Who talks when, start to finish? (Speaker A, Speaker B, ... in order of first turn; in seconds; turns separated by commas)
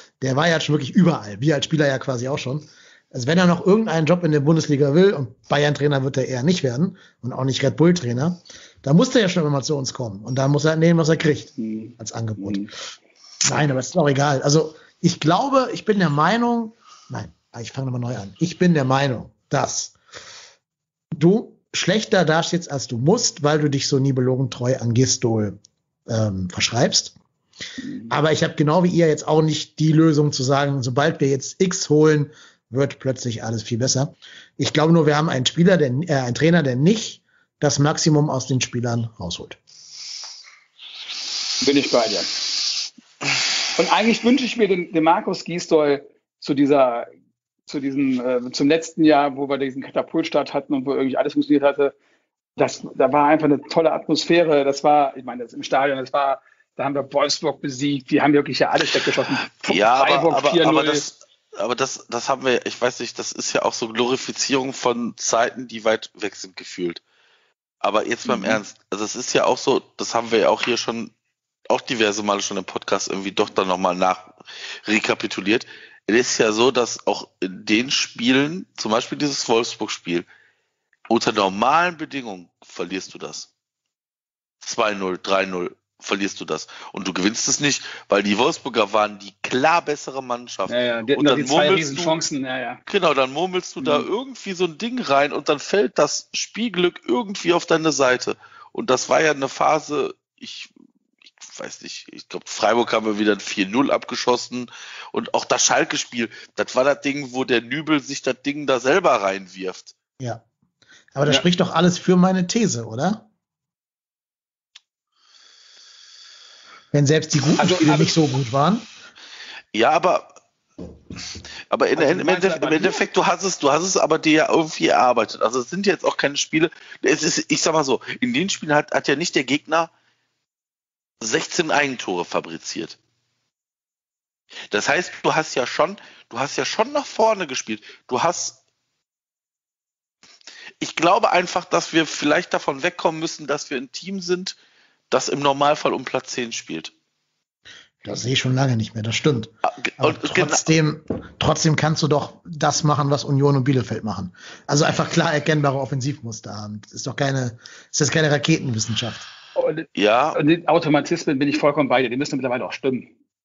Speaker A: 0.2-12.7, Speaker B: 11.6-12.7, Speaker A: 13.4-19.9, Speaker A: 21.1-27.1, Speaker B: 27.8-28.1, Speaker A: 28.1-39.6, Speaker B: 41.6-42.4, Speaker B: 43.7-47.1, Speaker B: 47.7-51.9, Speaker B: 52.6-61.0, Speaker C: 59.6-67.0, Speaker C: 67.8-71.1, Speaker B: 68.2-68.6, Speaker C: 71.7-80.3, Speaker C: 81.1-83.5, Speaker C: 84.6-92.2, Speaker B: 90.7-92.8, Speaker C: 92.9-100.7, Speaker B: 93.8-94.1, Speaker C: 101.4-109.9, Speaker A: 111.1-113.2, Speaker A: 116.9-118.9, Speaker B: 117.5-118.2, Speaker C: 119.7-120.3, Speaker C: 121.7-129.9, Speaker B: 122.0-123.0, Speaker C: 131.2-133.0, Speaker C: 134.7-138.6, Speaker C: 140.8-144.6, Speaker C: 145.1-146.9, Speaker A: 148.0-159.3, Speaker C: 149.8-150.7, Speaker B: 159.6-163.1, Speaker C: 159.9-160.4